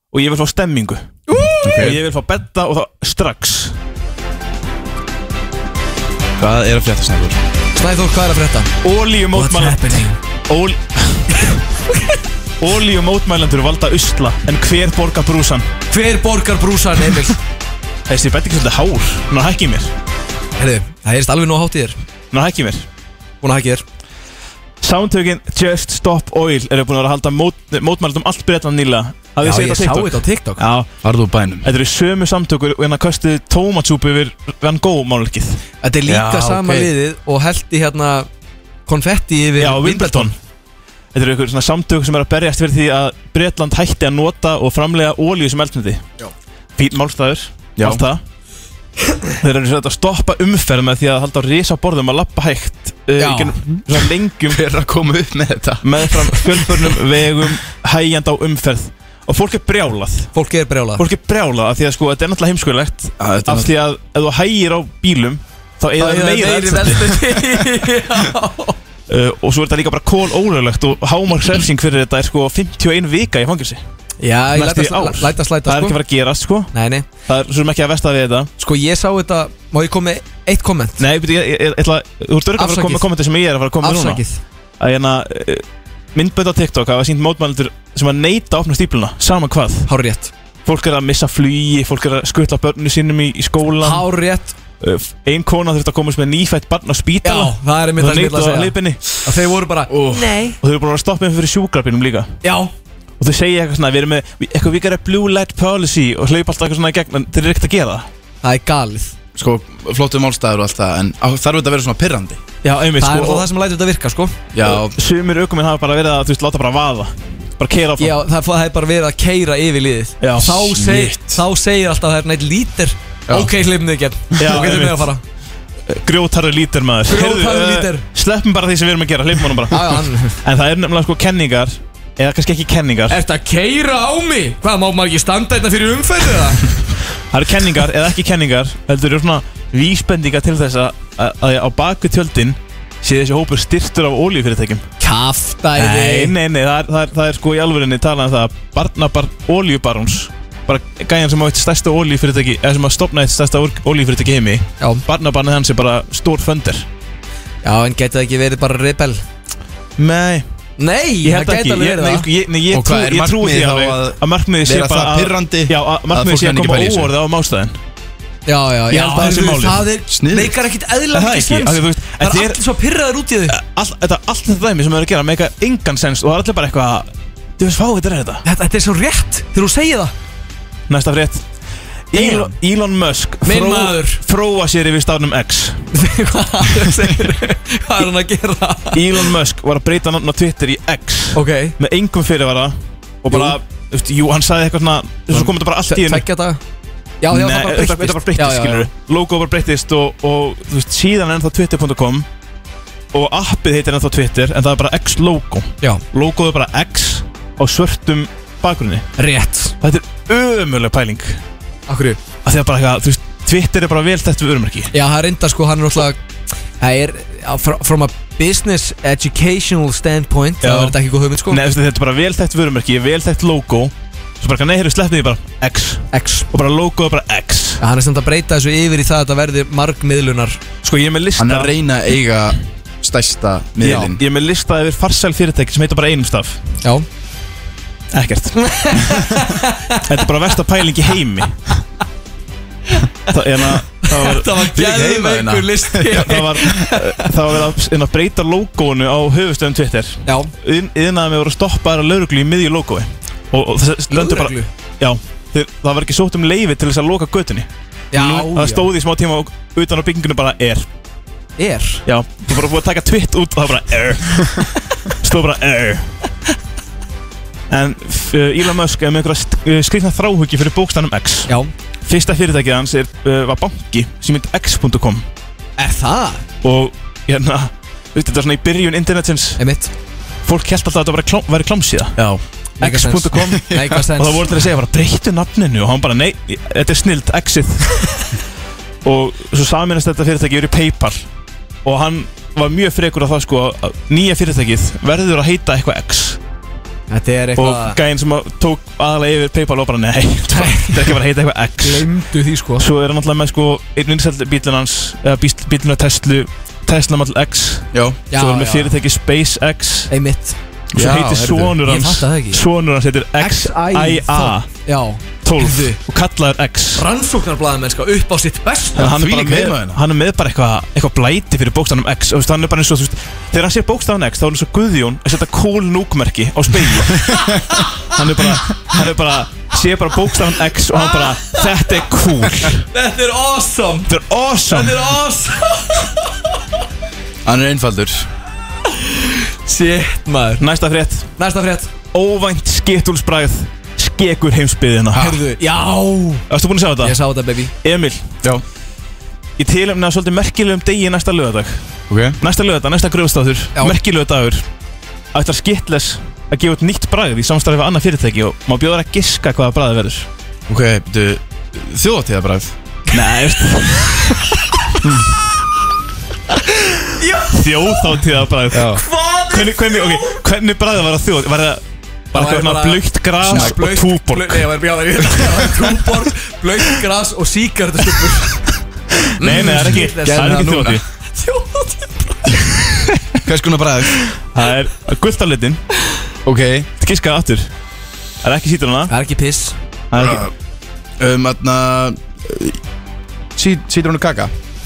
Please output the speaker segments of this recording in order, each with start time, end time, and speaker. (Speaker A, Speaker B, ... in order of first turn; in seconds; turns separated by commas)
Speaker A: 0.1-1.0, Speaker B: 1.3-1.9, Speaker C: 1.6-2.0, Speaker A: 1.8-3.7, Speaker C: 6.4-7.4, Speaker B: 7.8-8.7, Speaker A: 8.8-11.6, Speaker B: 9.3-10.2, Speaker B: 11.3-12.2, Speaker A: 12.6-15.7, Speaker B: 15.9-17.4, Speaker A: 18.1-19.9, Speaker B: 20.6-22.0, Speaker A: 22.3-22.9, Speaker B: 23.4-23.8, Speaker A: 24.8-30.9, Speaker B: 29.4-30.6, Speaker C: 31.0-31.7, Speaker A: 31.6-35.6, Speaker B: 35.8-38.3, Speaker C: 36.1-36.9, Speaker B: 38.9-40.3, Speaker A: 39.6-40.4, Speaker A: 41.1-46.0, Speaker A: 46.8-48.2, Speaker C: 47.8-48.0, Speaker A: 49.4-54.6, Speaker B: 53.2-53.5, Speaker C: 54.5-56.5, Speaker A: 55.8-60.3, Speaker B: 60.4-61.0, Speaker A: 61.0-67.4, Speaker C: 63.2-63.7, Speaker B: 66.0-68.8, Speaker A: 69.1-73.8, Speaker B: 74.2-76.0, Speaker A: 74.5-76.7, Speaker B: 76.7-77.1, Speaker A: 77.2-78.5, Speaker B: 78.6-81.0, Speaker A: 81.0-84.2, Speaker B: 82.6-83.1, Speaker B: 83.8-84.4, Speaker A: 84.8-89.9, Speaker B: 89.9-90.3, Speaker A: 90.7-94.1, Speaker B: 93.8-94.5, Speaker A: 94.8-99.0, Speaker B: 97.2-100.6, Speaker C: 99.9-100.3, Speaker A: 100.6-102.3, Speaker B: 102.4-102.7, Speaker A: 103.2-108.1, Speaker B: 108.4-109.2, Speaker C: 109.3-112.4, Speaker A: 112.6-113.5, Speaker B: 113.0-114.4, Speaker C: 114.5-115.0, Speaker A: 114.6-118.2, Speaker B: 118.0-125.2, Speaker A: 120.2-120.8, Speaker C: 120.6-121.4, Speaker A: 124.4-125.1, Speaker A: 125.9-133.2, Speaker B: 127.1-128.0, Speaker B: 129.7-130.4, Speaker B: 133.1-136.7, Speaker A: 137.3-144.9, Speaker B: 145.0-146.3, Speaker A: 145.8-156.9, Speaker B: 157.6-159.2, Speaker A: 160.0-160.4, Speaker B: 160.8-162.3, Speaker A: 161.2-167.8, Speaker C: 162.7-167.1, Speaker B: 168.5-173.6, Speaker A: 168.9-169.8, Speaker C: 170.1-170.6, Speaker A: 171.1-172.6, Speaker A: 173.5-178.4, Speaker B: 178.4-180.1, Speaker A: 180.9-181.4, Speaker A: 182.1-185.9, Speaker B: 182.1-182.6, Speaker B: 183.4-184.2, Speaker B: 185.9-189.3, Speaker A: 188.9-196.2, Speaker B: 191.3-191.8, Speaker B: 193.3-193.6, Speaker B: 195.3-196.6, Speaker B: 197.2-198.9, Speaker A: 197.3-202.3, Speaker A: 203.1-209.1, Speaker B: 209.2-209.7, Speaker A: 209.8-211.4, Speaker B: 211.9-212.2, Speaker A: 212.4-214.9, Speaker B: 214.9-216.2, Speaker B: 216.8-221.6, Speaker A: 220.6-221.0, Speaker A: 221.5-227.8, Speaker B: 226.1-226.5, Speaker B: 227.8-230.6, Speaker A: 230.8-231.7, Speaker C: 231.4-234.2, Speaker A: 233.8-236.6, Speaker A: 238.1-239.2, Speaker B: 238.6-240.1, Speaker A: 240.0-241.7, Speaker B: 242.9-243.3, Speaker A: 243.3-244.7, Speaker B: 244.0-247.3, Speaker C: 244.8-246.3, Speaker A: 246.1-260.9, Speaker B: 250.3-250.5, Speaker B: 254.1-254.7, Speaker B: 258.1-258.9, Speaker B: 261.6-262.0, Speaker A: 262.1-266.1, Speaker A: 267.7-271.5, Speaker B: 271.5-271.7, Speaker A: 272.1-275.2, Speaker B: 275.8-276.4, Speaker A: 276.6-279.6, Speaker B: 279.6-279.9, Speaker A: 280.4-282.2, Speaker B: 282.8-284.5, Speaker A: 282.8-288.2, Speaker C: 283.7-284.0, Speaker A: 289.1-291.2, Speaker A: 291.9-296.4, Speaker B: 297.1-298.0, Speaker A: 297.6-302.1, Speaker B: 300.5-301.2, Speaker B: 301.8-302.9, Speaker A: 302.8-310.1, Speaker C: 307.9-308.2, Speaker B: 308.3-308.9, Speaker B: 310.1-310.6, Speaker C: 310.9-311.8, Speaker A: 310.9-314.7, Speaker B: 311.8-312.6, Speaker B: 313.4-316.0, Speaker A: 315.4-317.0, Speaker B: 317.0-319.1, Speaker A: 319.0-327.4, Speaker C: 319.0-320.0, Speaker B: 327.3-328.1, Speaker A: 328.0-332.9, Speaker B: 331.0-331.6, Speaker B: 332.9-334.1, Speaker A: 334.1-335.1, Speaker B: 334.7-336.3, Speaker C: 337.4-338.3, Speaker B: 339.0-340.6, Speaker A: 340.6-341.3, Speaker B: 341.4-341.9, Speaker A: 342.1-345.4, Speaker B: 345.2-346.4, Speaker A: 346.5-347.2, Speaker B: 347.0-347.7, Speaker A: 347.8-348.2, Speaker A: 349.6-351.8, Speaker C: 352.1-352.4, Speaker A: 352.4-354.6, Speaker A: 355.3-360.3, Speaker C: 360.7-362.7, Speaker A: 363.1-364.4, Speaker B: 367.2-368.0, Speaker A: 367.5-369.0, Speaker C: 368.7-369.0, Speaker B: 368.9-370.4, Speaker A: 369.5-374.7, Speaker B: 372.3-378.6, Speaker C: 373.5-373.8, Speaker A: 379.3-381.0, Speaker B: 379.4-382.8, Speaker C: 379.5-381.0, Speaker C: 383.4-384.2, Speaker A: 384.5-385.8, Speaker C: 386.4-386.9, Speaker A: 387.0-387.7, Speaker A: 388.4-389.1, Speaker B: 389.1-389.8, Speaker A: 390.1-390.5, Speaker C: 390.2-390.5, Speaker C: 391.2-392.8, Speaker C: 393.6-394.5